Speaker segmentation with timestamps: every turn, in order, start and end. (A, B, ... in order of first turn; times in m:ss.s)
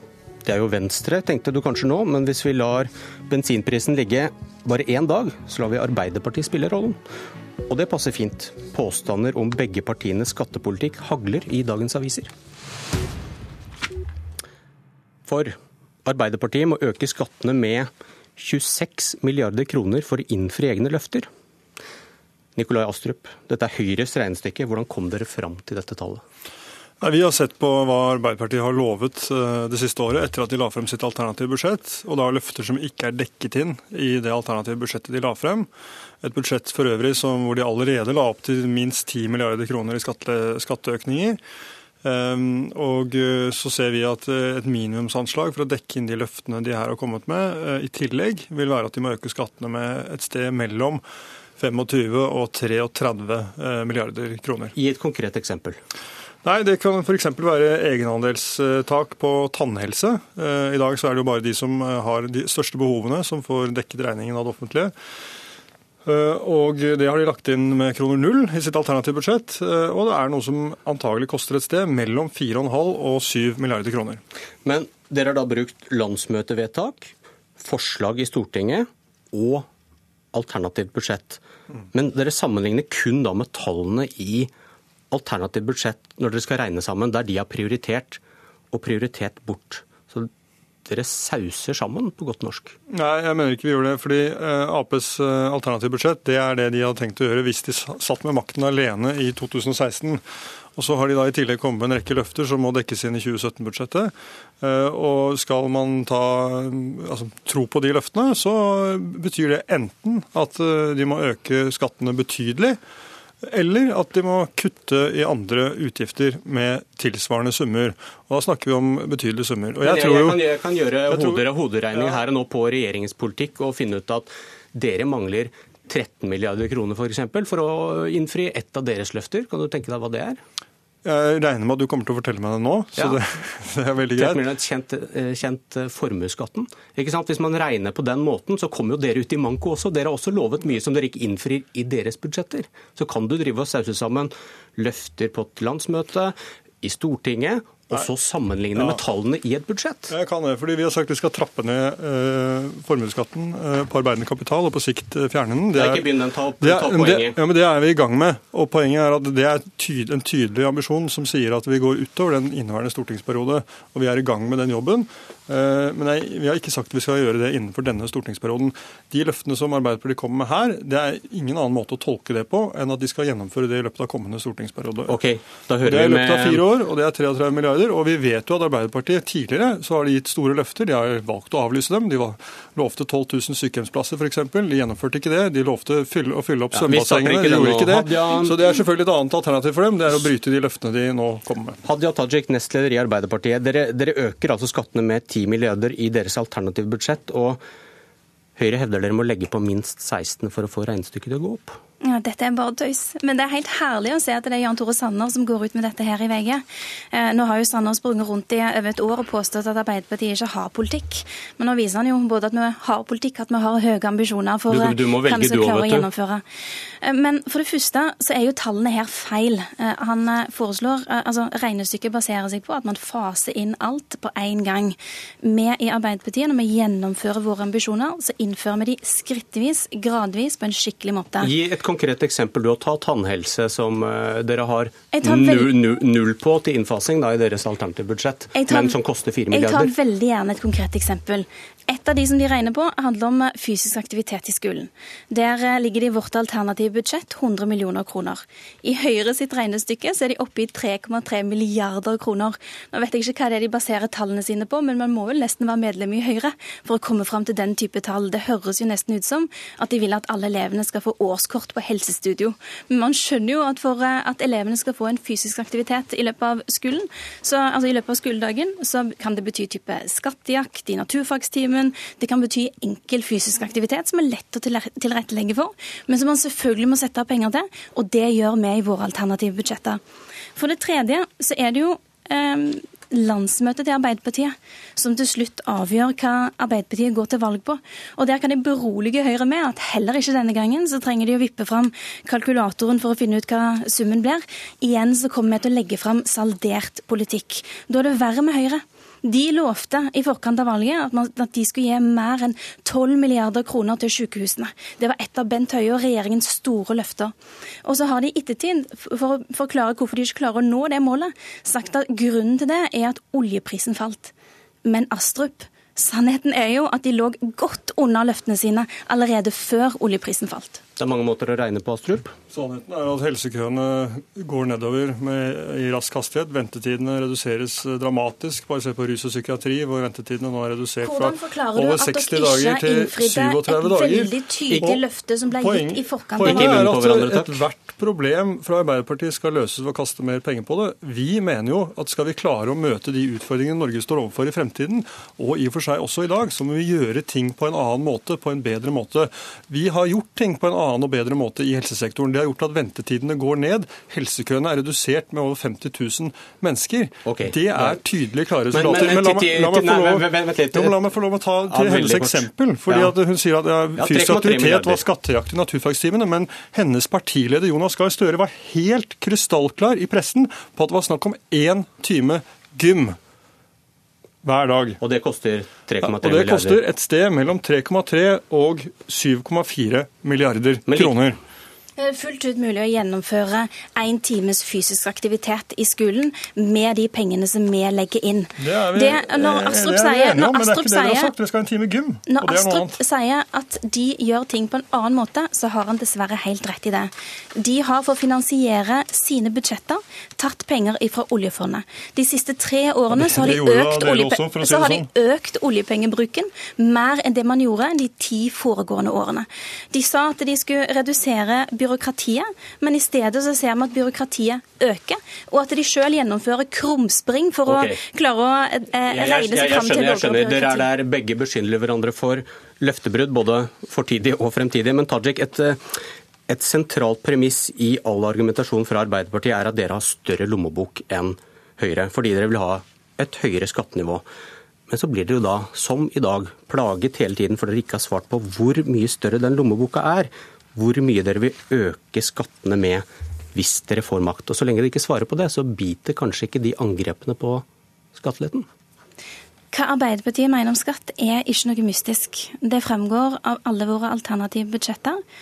0:00.4-0:07.0 A
0:07.7-0:12.3 A
0:15.3-0:15.5 A
0:16.0-0:21.3 A
0:22.6-0:26.2 A
0:27.0-0:35.7 B
0:36.2-0:41.4 B
0:42.0-0:51.0 B
0:51.6-0:54.7 B
0:54.7-0:55.8 A
0:56.4-1:04.9 B
1:06.0-1:14.2 B
1:14.6-1:19.7 A
1:20.3-1:21.4 A
1:21.9-1:24.5 A
1:25.1-1:28.2 A
1:28.7-1:30.3 A
1:30.8-1:32.8 A
1:32.9-1:40.2 B
1:40.8-1:52.8 B
1:53.4-2:00.4 B
1:59.8-2:10.4 A
2:01.1-2:01.4 B
2:11.0-2:14.4 B
2:14.1-2:30.1 A
2:30.1-2:36.0 B
2:35.7-2:37.4 A
2:36.6-2:55.1 B
2:55.1-2:56.6 A
2:55.8-3:11.8 B
3:06.7-3:08.6 A
3:11.8-3:17.6 A
3:18.6-3:21.8 A
3:22.0-3:36.4 C
3:34.7-3:36.1 A
3:37.0-3:51.5 C
3:51.4-3:59.9 A
3:55.1-3:55.7 C
3:58.5-3:58.9 C
3:59.5-4:40.0 C
4:40.6-5:07.3 C
5:07.8-5:14.3 C
5:14.8-5:20.8 C
5:21.0-5:22.3 A
5:22.5-5:35.0 B
5:31.0-5:36.8 C
5:35.5-6:13.2 B
5:36.4-5:37.6 A
5:57.2-5:58.0 A
5:58.7-6:01.0 A
6:01.7-6:03.1 A
6:04.0-6:05.0 A
6:14.4-6:15.0 B
6:15.0-6:16.8 A
6:16.0-6:21.4 B
6:20.9-6:21.1 A
6:22.0-6:31.3 C
6:28.6-6:33.0 B
6:32.3-7:00.9 C
6:43.1-6:45.1 B
6:57.6-6:58.0 A
6:59.1-7:14.2 A
7:14.9-7:28.6 A
7:29.7-7:35.2 C